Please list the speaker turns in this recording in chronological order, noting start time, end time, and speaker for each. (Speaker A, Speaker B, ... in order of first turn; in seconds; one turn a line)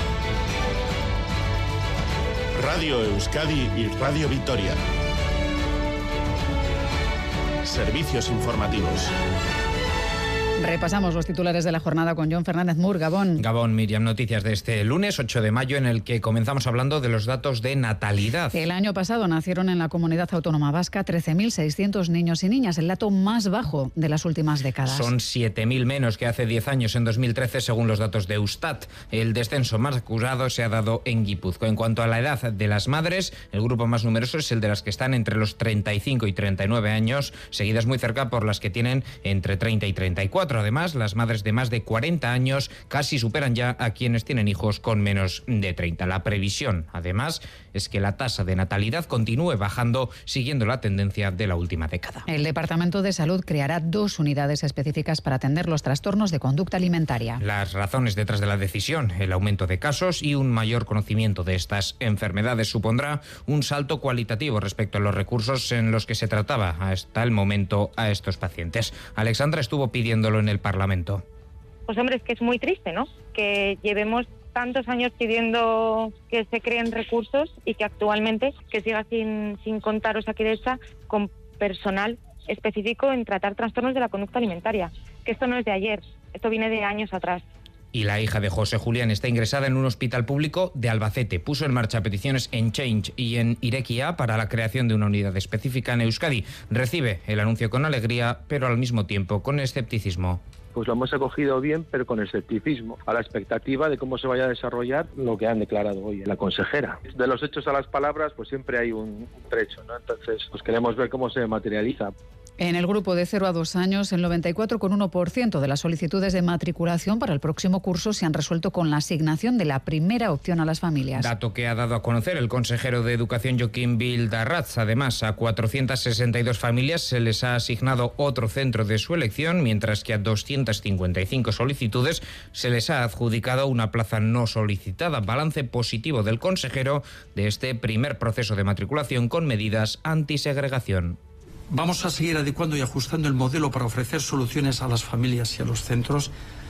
Speaker A: 2.6-4.8
Speaker A: 7.6-9.1
Speaker B: 10.6-13.4
Speaker C: 13.4-18.6
Speaker B: 18.5-25.1
Speaker C: 24.9-52.3
Speaker B: 52.3-57.4
Speaker C: 57.4-71.2
Speaker D: 71.9-87.4
Speaker C: 87.9-100.4
Speaker E: 100.8-112.1
Speaker B: 112.6-121.3
Speaker C: 121.2-141.2
Speaker F: 141.7-146.3